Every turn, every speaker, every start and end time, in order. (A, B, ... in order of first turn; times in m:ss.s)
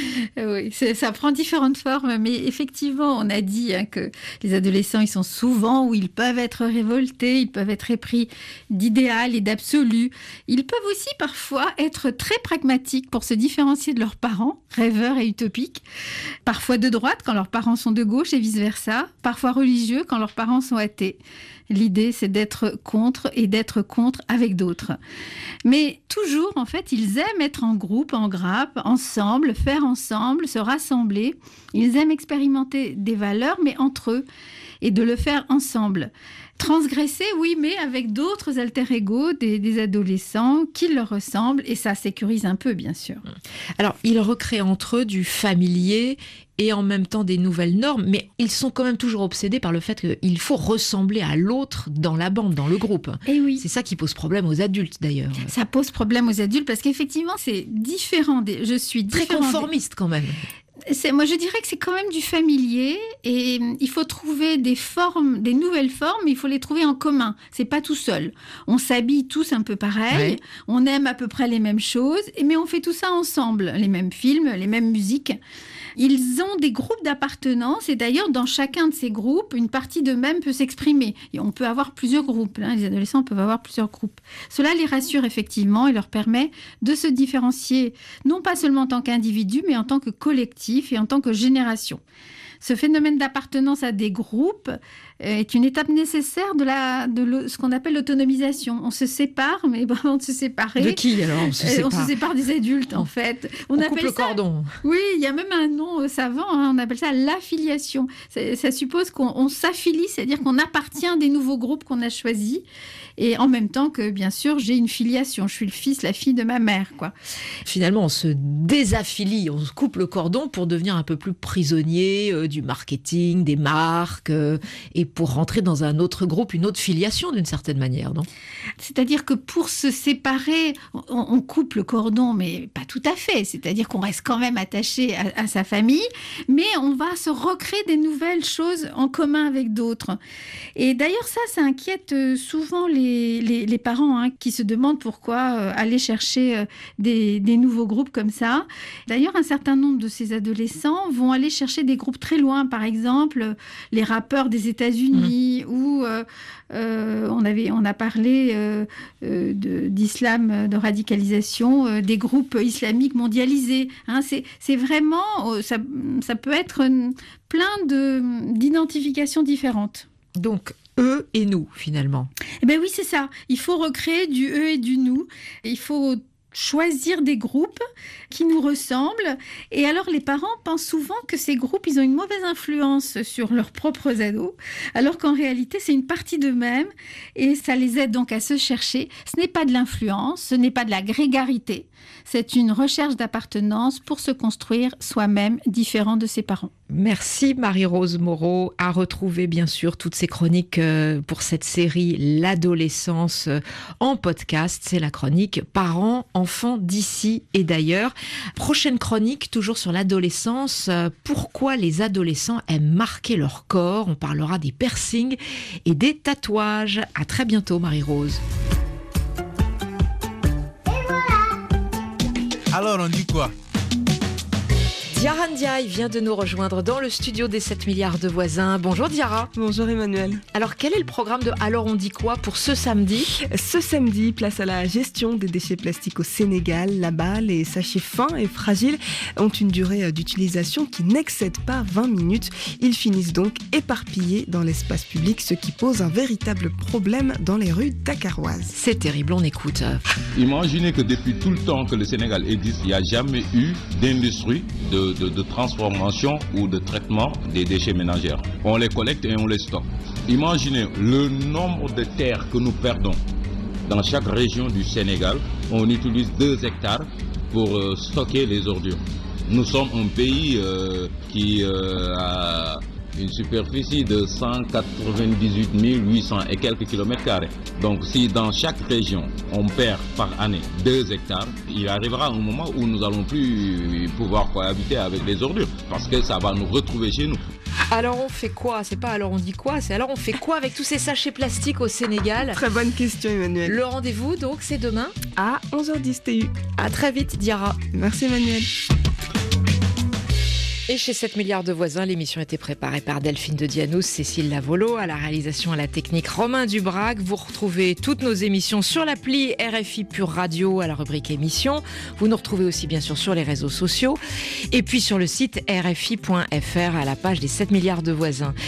0:00.4-0:15.8 A
0:16.5-0:21.2 A
0:21.7-0:25.0 A
0:25.6-0:34.3 A
0:34.8-0:43.2 A
0:43.8-0:55.5 B
0:53.3-0:53.6 A
0:55.5-0:59.7 A
0:59.1-1:00.4 B
1:00.9-1:15.4 A
1:10.1-1:10.4 B
1:16.0-1:32.0 A
1:32.6-1:41.0 A
1:40.8-1:42.2 B
1:41.6-1:52.6 A
1:43.8-1:44.8 B
1:53.2-1:57.1 A
1:57.6-2:08.3 B
2:08.8-2:20.2 A
2:20.8-2:50.1 A
2:50.4-2:52.3 B
2:52.6-3:16.7 A
3:16.9-3:38.4 B
3:45.1-3:49.5 B
3:49.6-3:50.4 C
3:50.5-3:53.3 B
3:53.3-4:08.7 C
4:08.7-4:10.0 B
4:10.4-4:23.2 D
4:23.9-4:47.4 D
4:47.9-4:52.6 B
4:52.5-4:53.8 C
4:53.6-4:55.2 B
4:55.4-4:56.7 C
4:56.8-4:57.8 B
4:57.9-4:58.7 C
5:00.9-5:14.2 B
5:14.7-5:18.6 B